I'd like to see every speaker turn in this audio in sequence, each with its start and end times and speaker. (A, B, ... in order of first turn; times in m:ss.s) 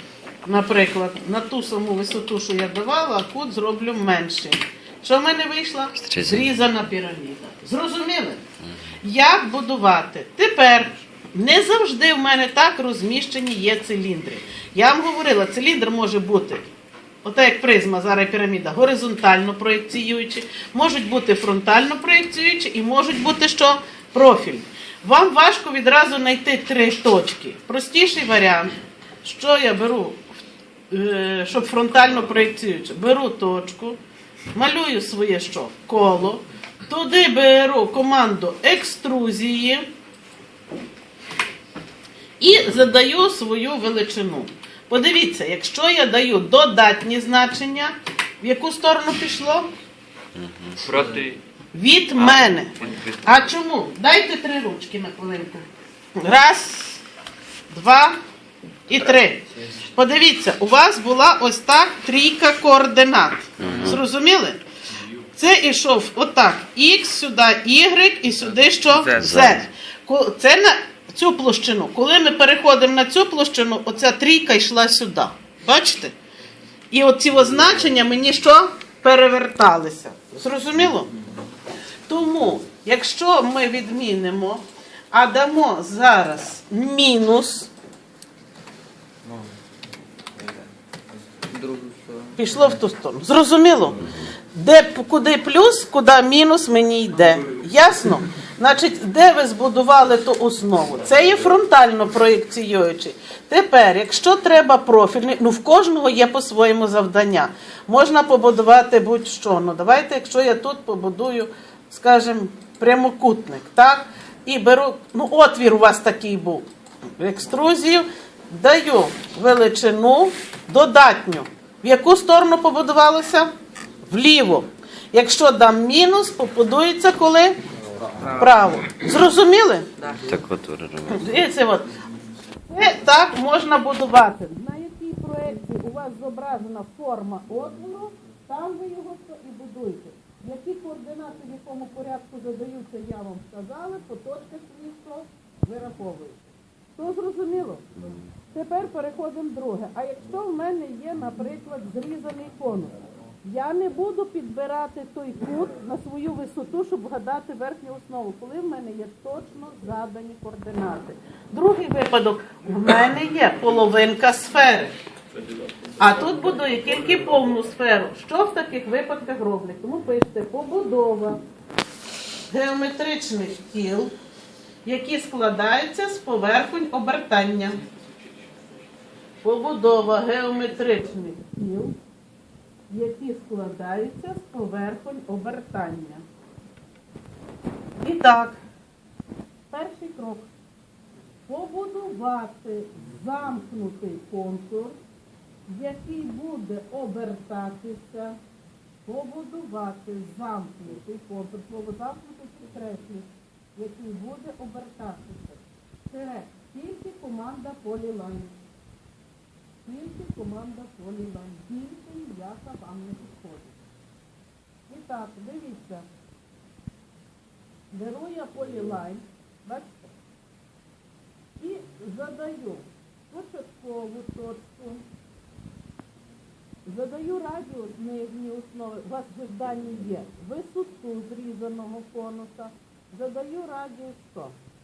0:00.4-0:08.4 A
0:05.9-0:06.5 B
0:09.0-0:16.7 A
0:17.2-0:30.2 A
0:30.9-0:34.0 A
0:34.5-0:39.9 A
0:42.4-0:49.7 A
0:50.3-0:50.8 B
0:50.8-0:51.4 C
0:51.7-0:57.0 A
0:52.2-0:53.3 C
0:57.7-0:58.2 A
0:58.9-1:04.6 A
1:03.6-1:04.0 B
1:05.4-1:16.1 A
1:08.9-1:09.3 C
1:09.1-1:09.7 B
1:16.9-1:21.1 A
1:22.1-1:27.7 A
1:31.4-1:32.6 C
1:32.4-1:56.6 A
1:57.2-2:03.5 A
2:04.1-2:07.6 A
2:08.2-2:08.5 C
2:08.4-2:09.9 A
2:10.0-2:10.3 C
2:10.2-2:11.4 B
2:11.1-2:11.9 A
2:12.7-2:26.4 A
2:27.0-2:27.9 A
2:28.5-2:32.9 A
2:33.4-2:44.9 A
2:46.0-2:51.4 A
2:52.5-2:54.1 A
2:54.8-2:57.8 A
2:59.4-3:02.0 A
3:02.9-3:06.2 A
3:08.0-3:08.6 A
3:09.7-3:10.5 A
3:11.5-3:15.0 A
3:15.7-3:18.4 A
3:19.0-3:28.5 A
3:29.8-3:33.8 A
3:34.9-3:36.0 A
3:37.9-3:40.1 A
3:41.6-3:45.0 A
3:46.8-3:54.5 A